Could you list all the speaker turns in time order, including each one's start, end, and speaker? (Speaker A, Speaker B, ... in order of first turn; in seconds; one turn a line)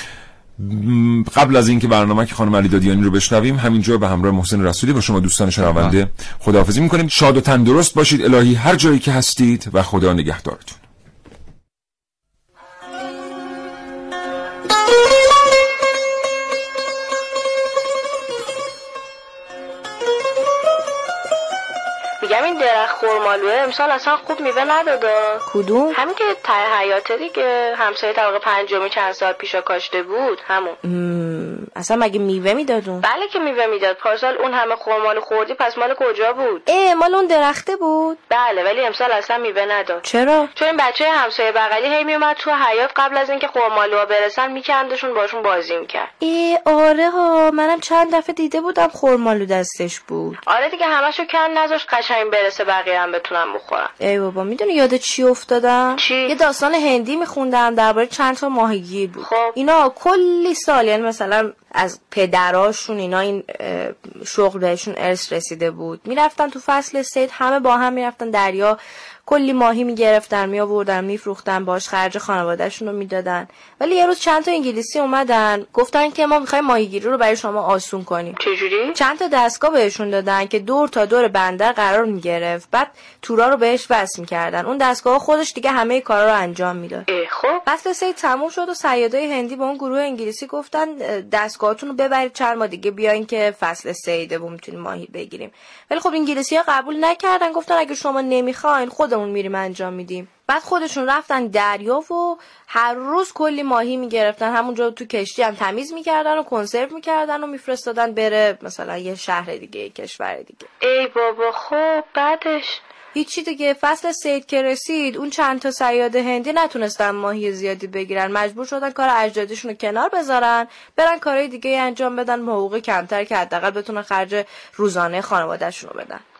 Speaker A: 0.6-10.8
Speaker B: 22.2-25.4
Speaker C: 25.5-26.0
Speaker B: 25.9-30.8
Speaker C: 30.8-33.0
Speaker B: 33.0-36.6
Speaker C: 36.7-38.2
Speaker B: 38.3-40.0
Speaker C: 40.0-40.5
Speaker B: 40.5-46.1
Speaker C: 46.2-50.4
Speaker B: 50.5-53.9
Speaker C: 54.0-78.4
Speaker B: 56.0-56.4
Speaker B: 59.2-59.5
Speaker B: 78.4-79.0
Speaker C: 78.9-87.0
Speaker B: 87.1-87.6
Speaker C: 87.7-110.7
Speaker B: 110.8-112.8
Speaker C: 113.1-126.2